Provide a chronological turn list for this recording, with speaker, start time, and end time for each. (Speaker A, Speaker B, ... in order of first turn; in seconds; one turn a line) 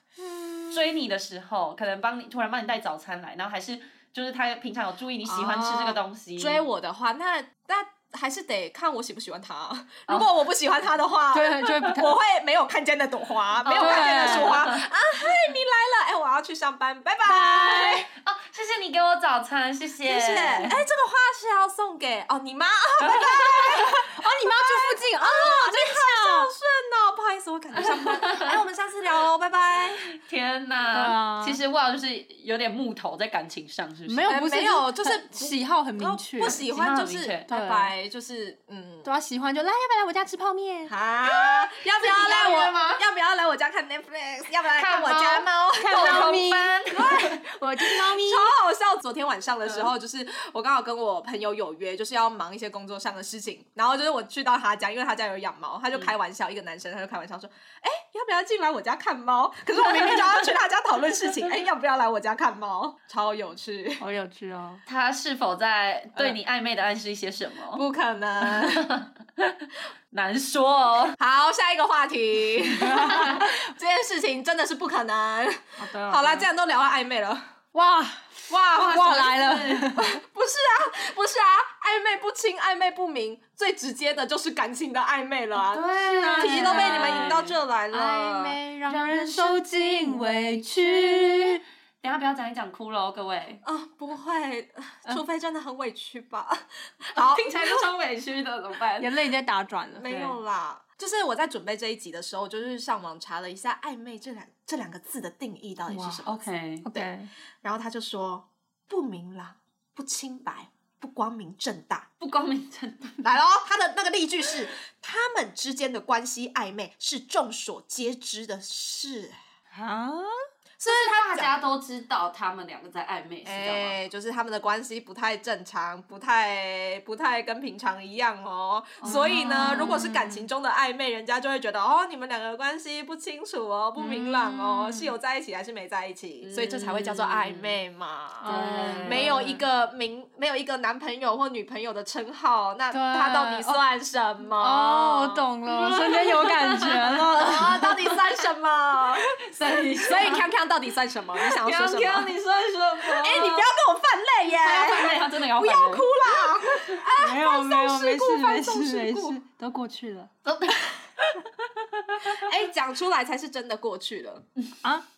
Speaker A: 0.2-0.8
Speaker B: 0.7-6.6
Speaker A: 5.3-18.1
Speaker C: 11.3-12.2
Speaker B: 13.7-14.9
Speaker C: 13.8-14.6
Speaker C: 17.2-18.1
Speaker B: 18.2-20.8
Speaker A: 20.0-30.1
Speaker B: 23.0-24.0
Speaker C: 23.8-26.5
Speaker B: 27.8-28.6
Speaker B: 30.1-34.3
Speaker C: 30.9-31.6
Speaker C: 34.1-36.6
Speaker A: 34.3-39.1
Speaker B: 36.7-37.5
Speaker C: 37.5-37.9
Speaker C: 39.0-41.0
Speaker A: 40.9-64.0
Speaker B: 41.8-43.0
Speaker B: 44.7-47.4
Speaker C: 45.8-48.5
Speaker C: 64.0-64.8
Speaker B: 64.9-67.8
Speaker A: 67.7-69.0
Speaker B: 68.4-71.2
Speaker A: 71.2-77.4
Speaker C: 72.8-73.5
Speaker C: 75.8-76.5
Speaker C: 77.7-80.2
Speaker A: 78.5-88.6
Speaker B: 85.5-87.6
Speaker C: 86.2-87.4
Speaker C: 87.9-91.6
Speaker B: 88.9-90.3
Speaker B: 90.9-91.4
Speaker B: 92.0-93.6
Speaker A: 93.6-97.9
Speaker B: 97.2-99.1
Speaker C: 99.0-100.1
Speaker A: 100.0-107.1
Speaker B: 100.0-100.4
Speaker C: 105.9-106.2
Speaker B: 106.2-106.8
Speaker C: 106.8-107.3
Speaker A: 107.6-112.1
Speaker B: 112.2-113.3
Speaker A: 113.2-119.4
Speaker C: 119.7-120.3
Speaker A: 120.8-121.6
Speaker B: 120.9-124.0
Speaker A: 123.5-145.1
Speaker B: 129.0-130.4
Speaker C: 129.0-130.0
Speaker B: 134.0-135.1
Speaker B: 136.4-137.8
Speaker B: 138.4-139.6
Speaker C: 138.4-139.3
Speaker C: 142.9-143.6
Speaker C: 144.6-148.2
Speaker B: 144.9-147.5
Speaker A: 147.4-149.2
Speaker B: 149.4-150.4
Speaker A: 150.0-152.3
Speaker B: 151.4-153.7
Speaker A: 153.1-159.4
Speaker B: 154.6-156.6
Speaker C: 157.2-160.3
Speaker B: 160.4-162.5
Speaker A: 162.2-164.5